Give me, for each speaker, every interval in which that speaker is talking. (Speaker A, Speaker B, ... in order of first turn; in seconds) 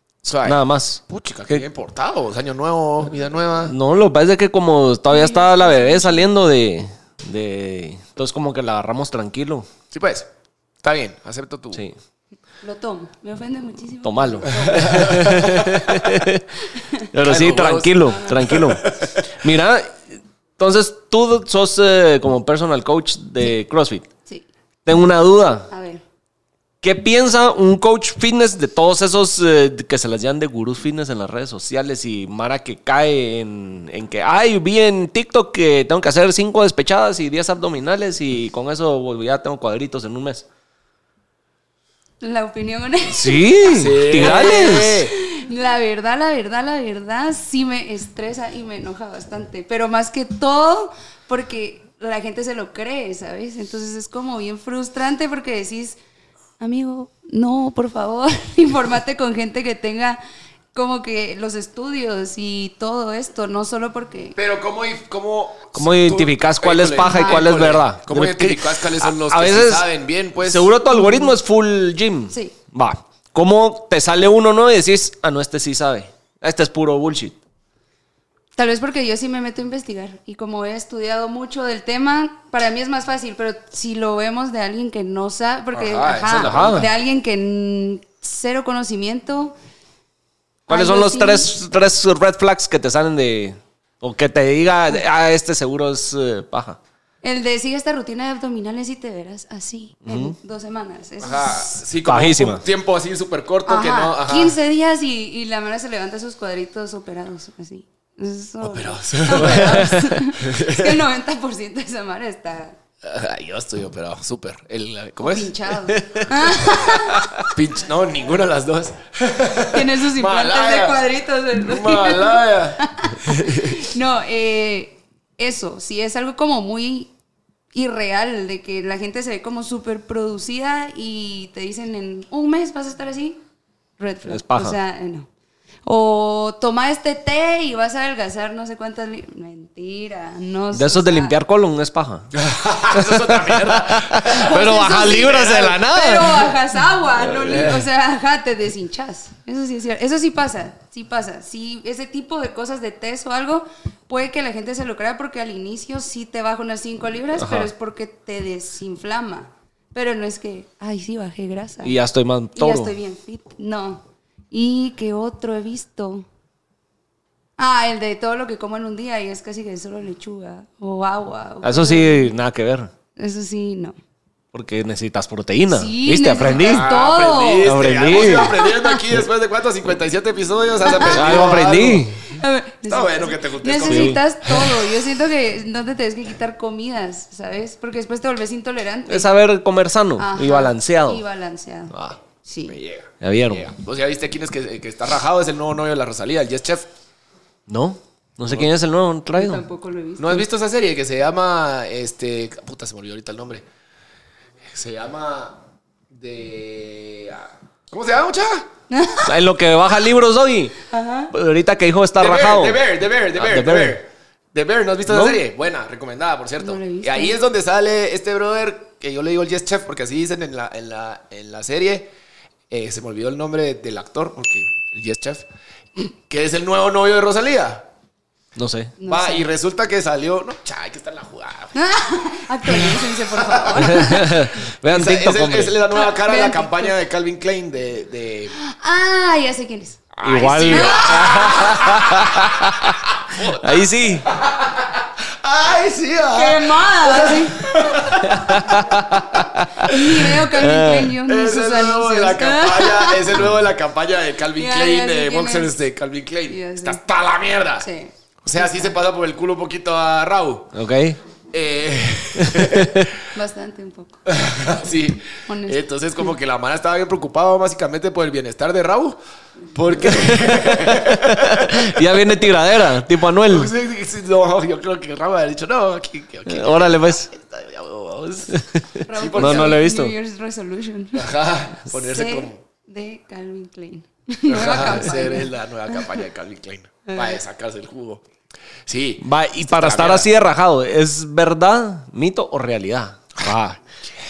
Speaker A: 0.2-3.7, 9.9-10.3, 10.8-11.8, 14.7-15.9, 17.2-19.1, 43.7-45.1, 64.4-70.7, 85.7-86.9, 101.2-104.5, 108.6-111.0, 113.0-115.5, 117.5-123.9, 142.4-144.6, 145.2-145.8, 176.4-182.1, 182.9-184.2, 192.7-196.9, 200.2-203.6, 204.7-205.6, 206.1-208.7, 212.2-222.1, 222.7-225.4, 226.3-227.9, 229.1-231.7, 232.7-234.0, 234.9-238.5, 240.1-248.8, 249.3-250.0, 251.2-257.9, 258.4-260.7, 261.5-263.1, 264.3-269.2, 269.7-271.9, 273.5-278.6, 279.1-279.8, 281.1-282.6, 284.5-288.2, 288.9-290.3, 293.4-294.1
Speaker B: 0.5-1.6, 3.7-9.7, 14.0-16.4, 17.1-24.1, 24.9-25.7, 26.8-40.5, 43.1-45.0, 65.8-69.9, 70.4-77.4, 86.3-86.9, 90.7-96.8, 100.1-100.4, 102.0-102.6, 109.3-110.2, 116.0-116.3, 134.3-134.8, 140.7-142.3, 142.9-146.5, 157.4-157.7, 161.8-162.9, 171.6-172.9, 174.5-176.9, 177.6-178.6, 181.1-182.2, 183.8-184.2, 189.1-191.2, 191.9-192.2, 193.2-193.7, 197.7-199.6, 209.2-210.8, 211.3-212.8, 213.4-214.0, 215.1-215.4, 228.6-228.9, 233.8-235.8, 240.2-243.0, 243.6-244.3, 248.2-249.9, 250.5-251.2, 260.7-261.2, 262.4-263.1, 270.0-273.7, 276.5-277.3, 278.5-280.1, 289.2-293.6
Speaker C: 5.1-6.3, 12.6-15.1, 25.7-26.0, 42.2-43.5, 44.2-56.0, 56.6-60.2, 60.7-64.4, 67.0-67.5, 70.9-71.4, 72.3-72.5, 78.6-89.5, 90.7-91.5, 97.2-101.8, 103.7-112.8, 115.2-117.5, 119.7-127.1, 127.7-133.4, 134.0-135.3, 135.9-141.4, 144.4-162.0, 162.6-166.3, 167.6-172.3, 173.2-174.0, 175.7-179.0, 180.8-181.5, 182.3-189.3, 190.2-191.9, 192.4-192.8, 199.3-200.5, 208.9-209.3, 210.9-211.3, 216.6-217.4, 229.0-229.5, 231.8-234.3, 235.9-236.9, 238.6-240.0, 240.7-241.5, 246.3-247.7, 249.8-253.4, 254.6-255.8, 256.5-257.0, 257.8-258.9, 263.3-264.2, 265.4-265.8, 279.1-281.3, 281.9-286.0, 287.1-287.4